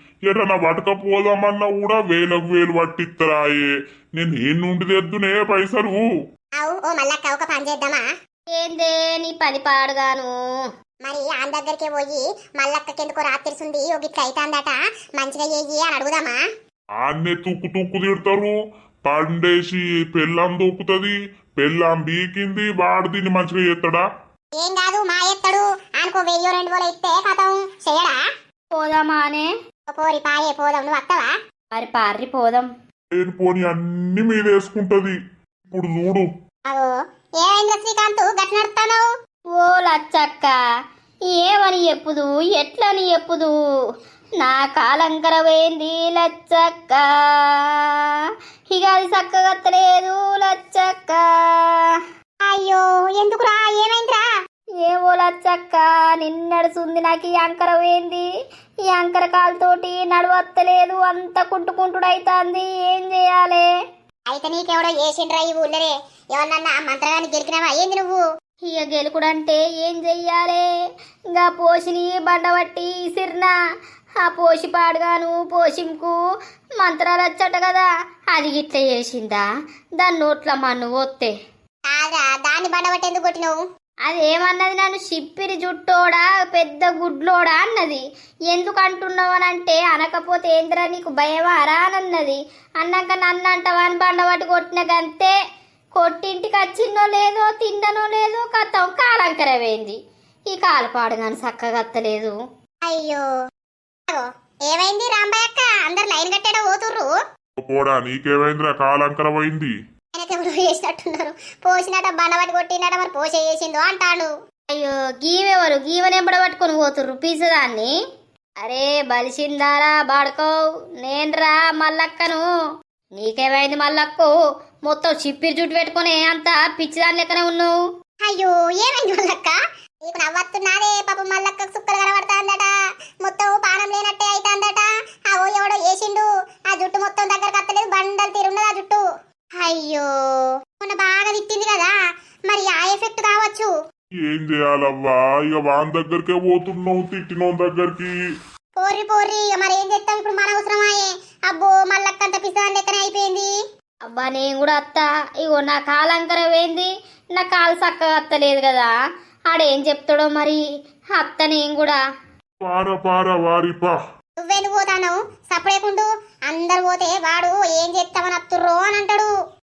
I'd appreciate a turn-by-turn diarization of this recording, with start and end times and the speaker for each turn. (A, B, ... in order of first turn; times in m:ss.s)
0:00.3-0:06.0 A
0:06.6-0:08.1 B
0:08.5-0:10.4 C
0:11.0-0:16.4 B
0:17.0-0:24.0 A
0:24.6-0:28.2 B
0:28.7-0:29.5 C
0:29.9-0:31.3 B
0:31.7-0:32.7 C
0:33.2-0:35.2 A
0:35.7-0:36.3 A
0:37.4-0:39.0 B
0:39.6-0:40.6 C
0:41.3-0:43.5 C
0:44.4-0:48.2 C
0:48.7-0:52.0 C
0:52.4-0:54.2 B
0:54.8-0:58.3 C
0:58.9-1:03.7 C
1:04.3-1:08.2 B
1:08.6-1:10.6 C
1:11.3-1:13.5 C
1:14.2-1:16.2 C
1:16.8-1:19.4 C
1:20.0-1:21.3 C
1:21.9-1:23.6 B
1:24.1-1:35.4 C
1:36.0-1:40.0 C
1:40.5-1:42.4 C
1:42.8-1:43.2 B
1:44.1-1:47.1 B
1:47.6-1:49.7 A
1:50.2-1:54.3 B
1:54.7-1:57.9 C
1:58.6-2:02.5 C
2:03.2-2:04.3 C
2:04.9-2:07.7 C
2:08.2-2:12.7 B
2:13.2-2:19.0 B
2:19.6-2:21.9 B
2:22.5-2:23.7 B
2:24.3-2:28.1 A
2:28.8-2:33.5 B
2:34.1-2:38.9 C
2:39.5-2:40.6 C
2:41.2-2:42.0 C
2:42.6-2:44.0 A
2:44.4-2:49.3 B